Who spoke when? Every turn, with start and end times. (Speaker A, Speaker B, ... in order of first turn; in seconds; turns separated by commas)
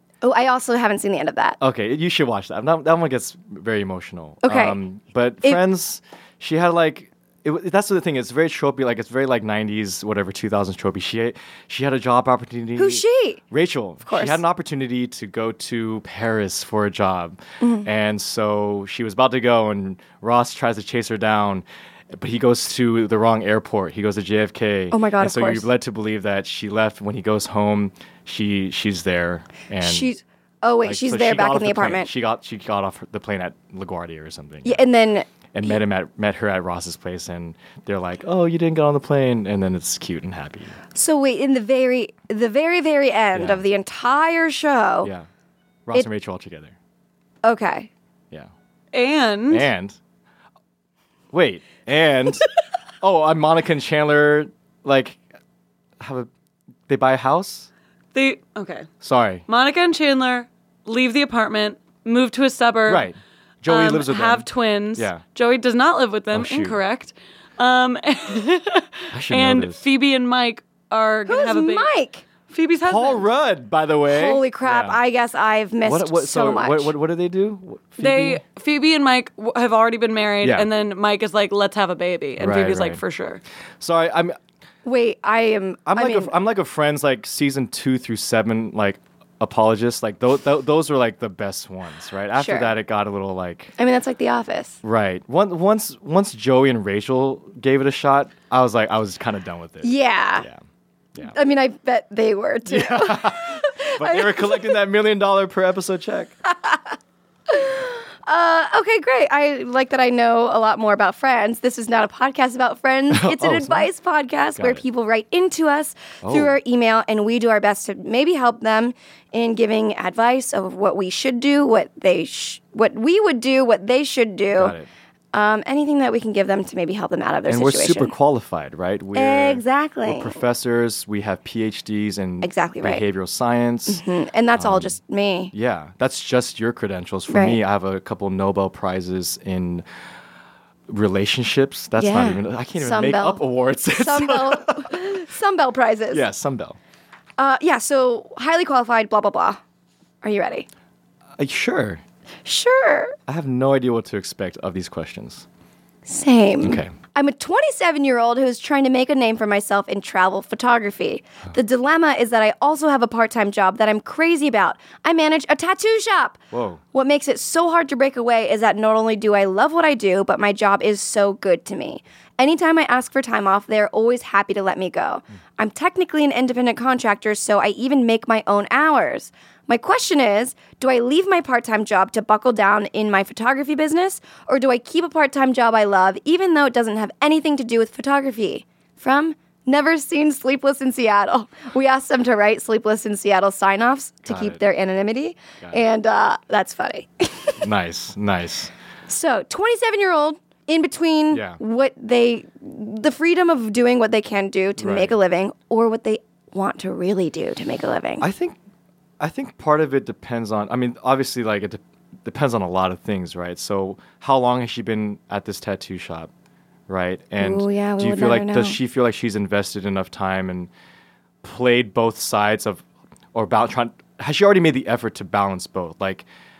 Speaker A: 0.2-1.6, Speaker B: 1.6-30.1, Speaker A: 4.4-4.8, Speaker A: 12.8-13.4, Speaker A: 14.0-14.4, Speaker A: 17.6-17.9, Speaker A: 24.9-25.7, Speaker A: 29.8-32.1, Speaker B: 30.8-34.9, Speaker A: 34.6-35.8, Speaker B: 35.5-40.8, Speaker A: 40.9-45.1, Speaker B: 43.3-43.6, Speaker B: 45.0-45.3, Speaker B: 45.9-46.8, Speaker A: 47.4-47.9, Speaker C: 48.9-49.7, Speaker B: 49.5-50.0, Speaker B: 51.3-52.5, Speaker B: 53.0-55.2, Speaker B: 56.0-56.3, Speaker B: 56.9-57.7, Speaker C: 58.1-58.9, Speaker B: 59.0-59.5, Speaker C: 59.5-63.1, Speaker B: 62.9-65.2, Speaker C: 63.6-71.9, Speaker B: 66.3-66.8, Speaker B: 69.1-69.8, Speaker A: 71.2-72.2, Speaker C: 72.5-73.2, Speaker B: 72.8-75.0, Speaker A: 74.1-76.9, Speaker B: 75.8-78.4, Speaker C: 78.0-83.4, Speaker B: 80.4-80.7, Speaker B: 82.4-83.0, Speaker B: 83.8-84.4, Speaker A: 84.8-86.3, Speaker B: 85.8-93.7, Speaker A: 92.3-92.7, Speaker A: 93.8-94.8, Speaker B: 94.8-100.6, Speaker A: 99.8-100.5, Speaker A: 101.2-104.8, Speaker B: 102.7-106.3, Speaker A: 107.5-124.7, Speaker B: 113.1-113.9, Speaker B: 114.6-114.8, Speaker B: 116.2-116.6, Speaker B: 124.5-124.9, Speaker A: 125.3-128.1, Speaker B: 127.5-134.0, Speaker A: 129.1-130.4, Speaker A: 132.4-133.0, Speaker A: 133.9-135.5, Speaker B: 134.6-135.0, Speaker B: 135.5-139.8, Speaker A: 137.3-137.6, Speaker B: 140.9-145.0, Speaker A: 142.0-146.2, Speaker B: 146.1-146.8, Speaker A: 147.4-149.6, Speaker A: 150.2-150.7, Speaker B: 151.4-152.0, Speaker A: 152.4-153.2, Speaker B: 153.3-155.4, Speaker A: 156.1-166.4, Speaker B: 156.6-156.9, Speaker B: 166.5-166.8, Speaker A: 166.9-197.6, Speaker B: 194.3-194.6, Speaker B: 197.6-198.7, Speaker A: 199.1-208.2, Speaker B: 201.3-201.6, Speaker B: 204.8-205.2, Speaker B: 208.2-208.6, Speaker B: 209.2-216.3, Speaker B: 216.9-220.7, Speaker A: 217.4-218.8, Speaker B: 221.4-226.2